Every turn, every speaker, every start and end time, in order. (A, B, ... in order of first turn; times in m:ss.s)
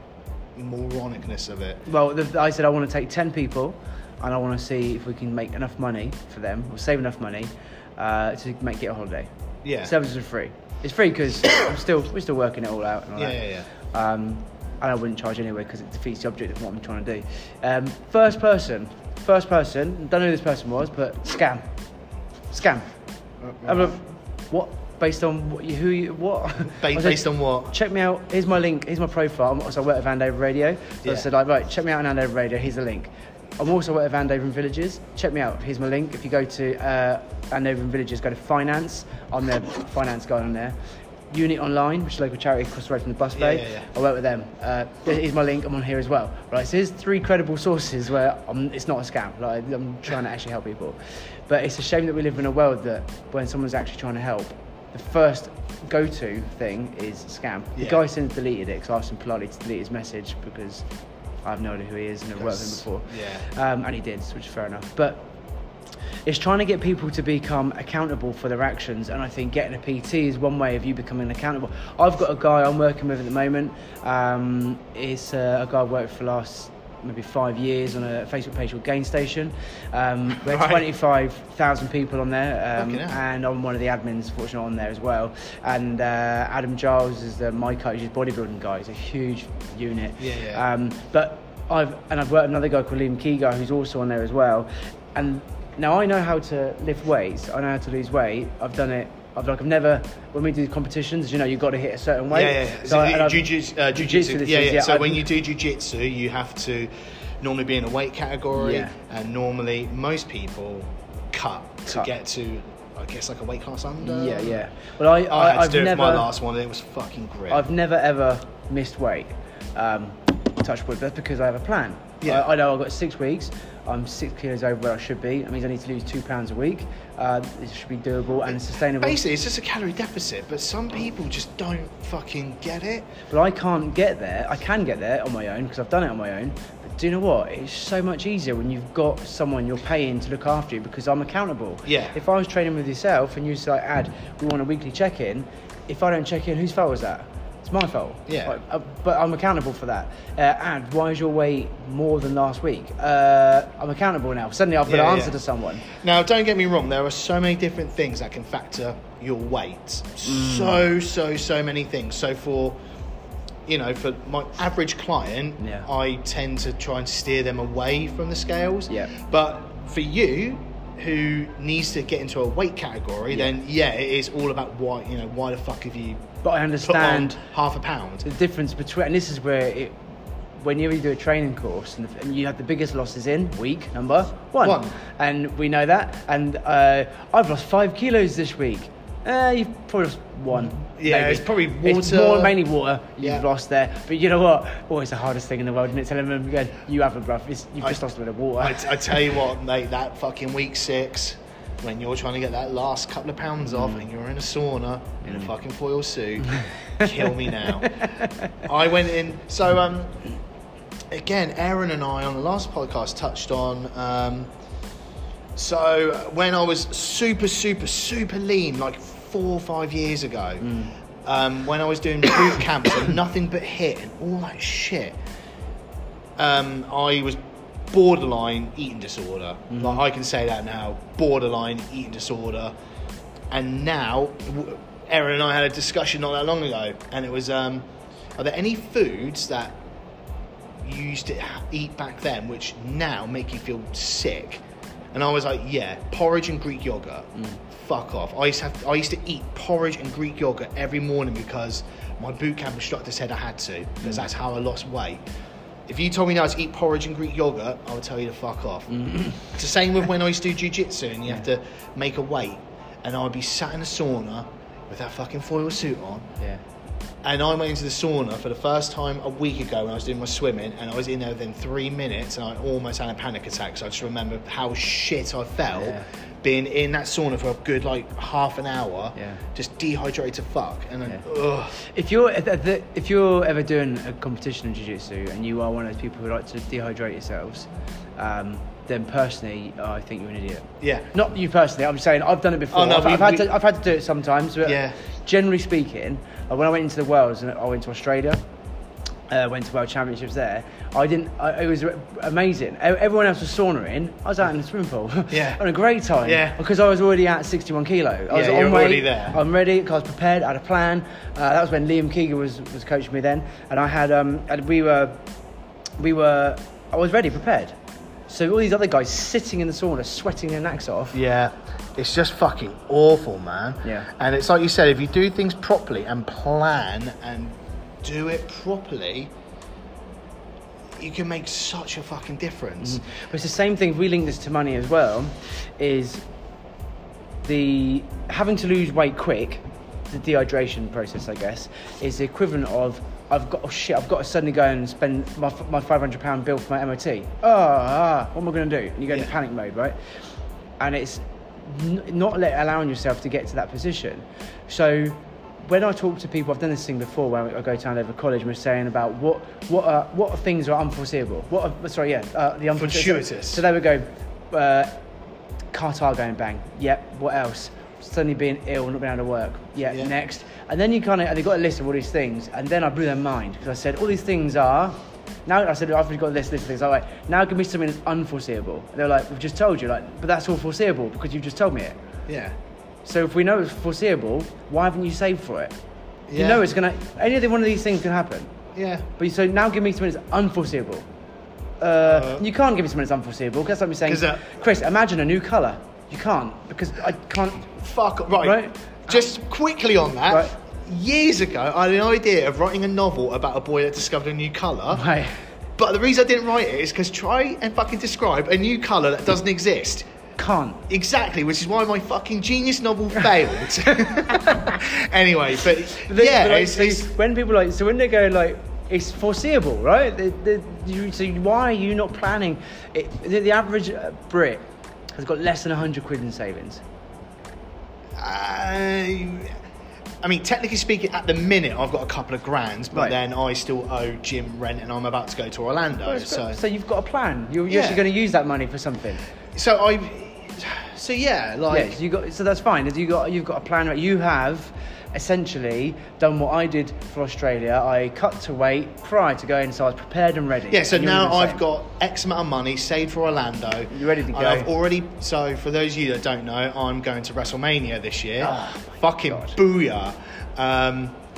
0:00.6-0:01.8 A
0:01.9-0:09.3 B
0:09.6-0:09.9 A
0:09.8-0:21.7 B
0:13.2-0:13.7 A
0:22.5-0:22.9 B
0:23.4-0:24.0 A
0:23.6-0:40.8 B
0:26.8-0:27.7 A
0:41.3-0:51.0 B
0:43.4-0:43.9 A
0:51.5-1:00.8 B
0:57.8-0:58.0 A
1:01.4-1:05.3 B
1:02.4-1:03.5 A
1:06.3-1:45.3 B
1:20.4-1:20.9 A
1:22.8-1:23.2 A
1:30.2-1:30.6 A
1:42.3-1:54.6 A
1:48.5-1:49.0 B
1:54.0-1:56.3 B
1:55.3-1:57.7 A
1:57.5-2:09.2 B
2:02.2-2:02.5 A
2:08.5-2:13.1 A
2:13.3-2:35.9 B
2:21.9-2:22.2 A
2:28.3-2:28.6 A
2:34.9-2:42.8 A
2:40.2-2:40.8 B
2:43.7-2:56.3 A
2:45.6-2:45.9 B
2:56.4-2:57.4 B
2:56.8-2:58.3 A
2:58.2-3:00.0 B
3:00.6-3:19.2 B
3:04.6-3:05.0 A
3:10.5-3:12.6 A
3:18.6-3:28.1 A
3:23.7-3:24.0 B
3:25.2-3:25.5 B
3:26.6-3:28.5 B
3:28.6-3:30.3 A
3:31.1-3:34.5 A
3:35.6-3:45.2 A
3:40.6-3:40.9 B
3:46.4-3:47.4 A
3:47.9-3:52.7 A
3:49.7-3:50.0 B
3:53.5-3:59.8 A
4:00.8-4:15.2 A
4:15.9-4:26.3 A
4:18.9-4:19.4 B
4:27.2-4:41.8 A
4:35.7-4:36.1 B
4:39.2-4:39.4 B
4:41.8-4:58.4 B
4:50.8-4:51.1 A
4:52.7-4:53.5 A
4:54.6-4:55.0 A
4:59.3-5:15.2 B
5:05.3-5:05.6 A
5:06.2-5:06.6 A
5:08.3-5:09.4 A
5:16.0-5:17.8 B
5:18.3-5:21.2 B
5:21.1-5:29.3 A
5:23.8-5:24.1 B
5:31.0-5:33.0 A
5:32.8-5:36.2 B
5:37.4-5:50.0 B
5:50.8-6:05.0 B
6:02.8-6:03.6 A
6:05.7-6:22.0 B
6:22.3-6:22.6 A
6:23.0-6:25.7 B
6:26.3-6:26.6 A
6:26.3-6:28.6 B
6:28.8-6:29.1 A
6:29.2-6:31.0 B
6:31.8-6:37.7 B
6:32.0-6:32.5 A
6:34.1-6:34.5 A
6:37.7-6:45.0 A
6:38.4-6:39.2 B
6:40.3-6:40.6 B
6:44.9-6:45.4 B
6:45.8-6:50.0 A
6:50.4-6:50.8 B
6:50.9-6:57.1 A
6:53.9-6:54.8 B
6:56.0-7:04.6 B
7:05.1-7:06.8 B
7:08.2-7:09.6 A
7:10.2-7:16.6 A
7:16.0-7:19.2 B
7:17.7-7:18.0 A
7:19.5-7:22.0 A
7:21.7-7:31.6 B
7:30.7-7:41.2 A
7:33.9-7:34.7 B
7:38.4-7:39.6 B